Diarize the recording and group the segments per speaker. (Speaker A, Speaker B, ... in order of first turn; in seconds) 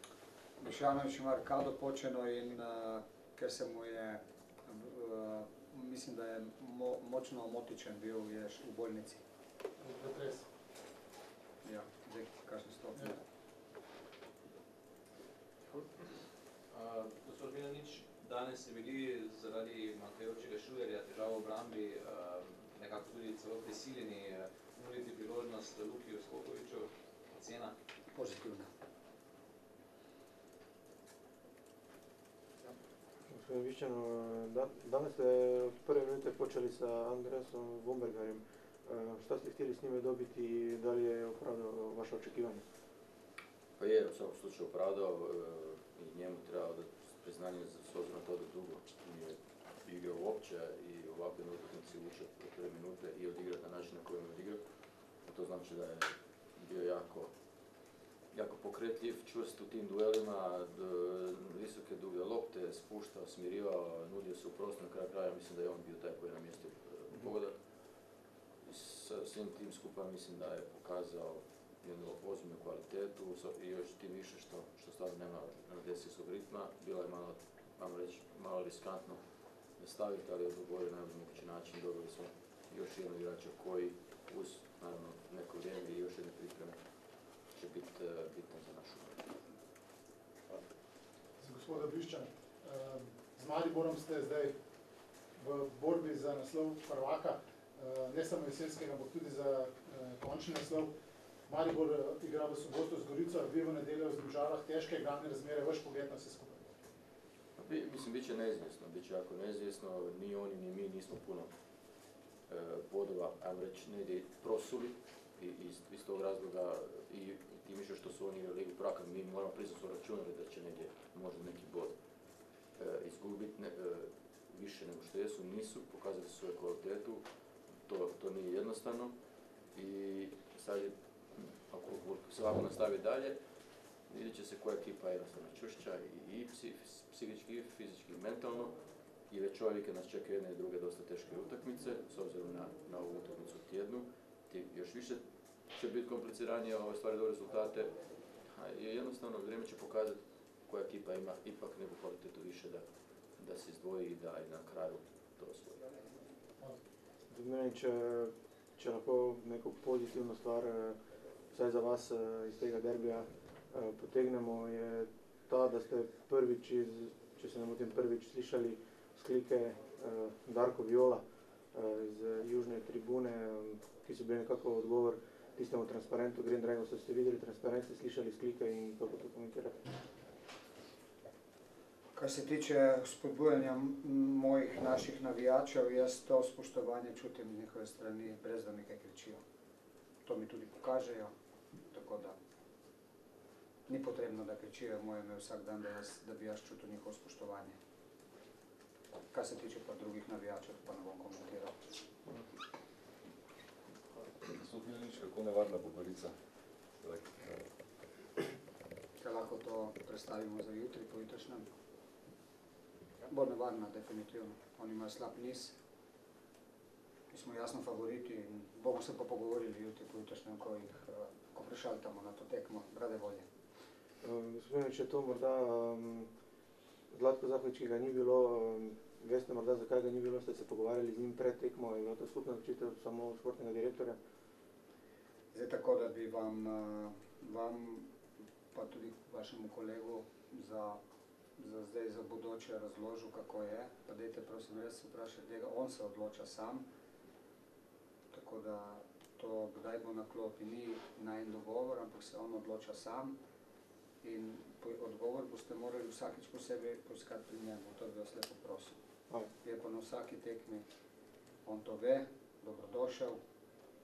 Speaker A: 0.6-9.2, 11.6-13.2, 28.1-28.7, 182.1-189.4, 190.2-191.3, 191.9-192.3, 193.9-197.8, 199.3-201.7, 209.2-211.7, 213.3-215.7, 217.3-223.4, 235.5-238.1, 238.7-241.0, 241.6-246.8, 248.3-253.3, 254.2-258.9, 259.6-260.8, 261.6-263.4
Speaker B: 9.8-10.4, 91.4-94.5, 95.4-100.9, 101.5-106.6
Speaker C: 16.7-27.7
Speaker D: 33.3-42.6, 157.3-161.0, 161.5-179.7, 224.2-226.3, 227.1-234.2
Speaker E: 43.8-54.6, 55.2-57.3, 58.3-67.5, 68.6-79.2, 79.8-86.8, 87.5-89.3, 107.6-111.5, 112.5-121.9, 122.8-127.2, 127.8-129.1, 129.7-133.4, 134.1-138.8, 139.3-145.2, 145.7-147.9, 148.5-152.8, 153.4-155.8
Speaker F: 204.4-206.3, 207.0-207.7